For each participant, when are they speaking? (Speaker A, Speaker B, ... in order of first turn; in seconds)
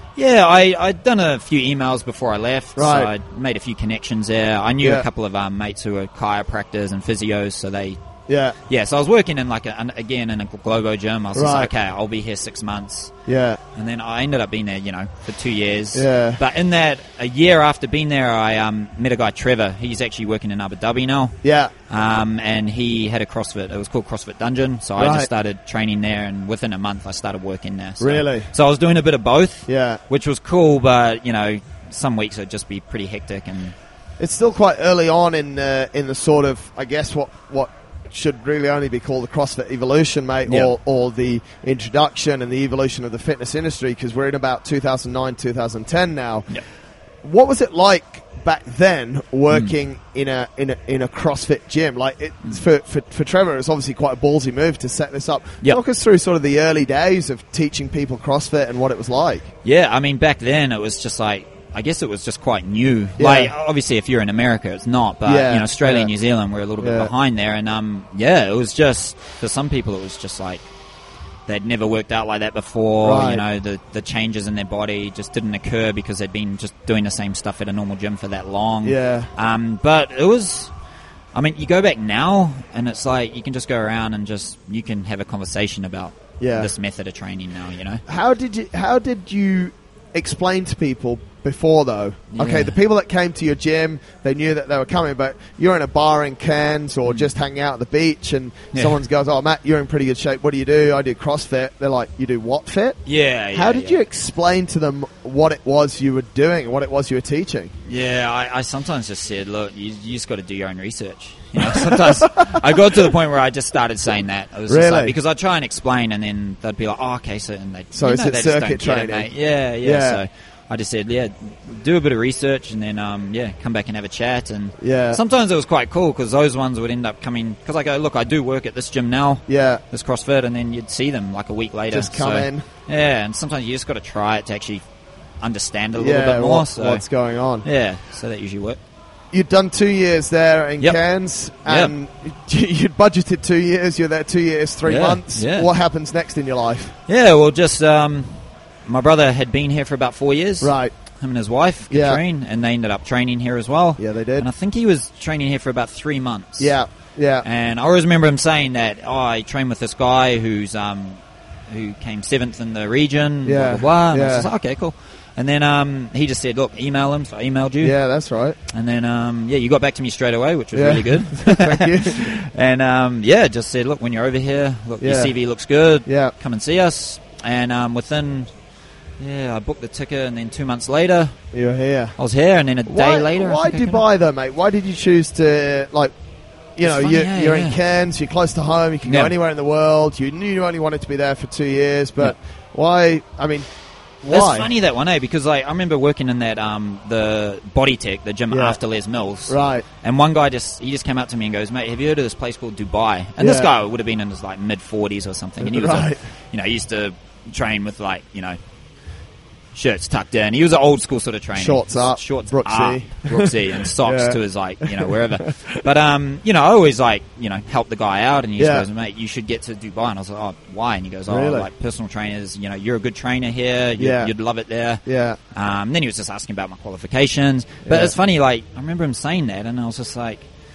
Speaker A: 0.2-8.0, 8.7-13.1, 13.8-21.4, 21.9-33.8, 40.5-40.7, 59.6-70.7, 71.5-80.7, 81.3-88.0, 92.3-92.8, 98.7-99.0, 103.1-104.0, 107.9-134.8, 135.4-137.0, 137.6-138.8, 141.7-141.9, 144.8-145.7, 147.1-156.7, 157.4-167.9, 168.7-178.5, 179.2-181.3, 182.2-184.0, 186.8-187.8, 189.0-189.3, 194.3-208.6, 209.7-230.5
Speaker B: 2.8-3.1, 8.3-8.6, 11.3-11.7, 13.3-13.6, 15.9-16.4, 21.4-21.7, 25.0-25.3, 28.0-28.5, 29.7-30.0, 34.2-46.5, 47.2-59.5, 63.2-63.5, 65.2-66.1, 66.8-67.1, 73.0-73.4, 78.8-79.3, 86.4-86.7, 88.1-103.0, 103.5-107.7, 111.7-112.6, 114.7-115.2, 117.9-119.3, 119.8-120.2, 124.8-125.2, 129.5-129.8, 131.9-132.7, 135.9-137.7, 139.3-146.9, 150.6-150.9, 151.9-152.2, 154.0-154.5, 156.6-157.5, 163.4-164.5, 167.8-168.6, 170.7-172.3, 175.0-175.3, 176.1-176.3, 181.5-182.2, 182.9-186.1, 186.8-193.7, 194.2-194.7, 198.5-198.8, 199.5-199.9, 203.4-203.7, 205.6-206.2, 211.6-215.8, 218.6-218.9, 221.3-221.7, 224.0-224.3, 225.1-225.4, 227.8-228.2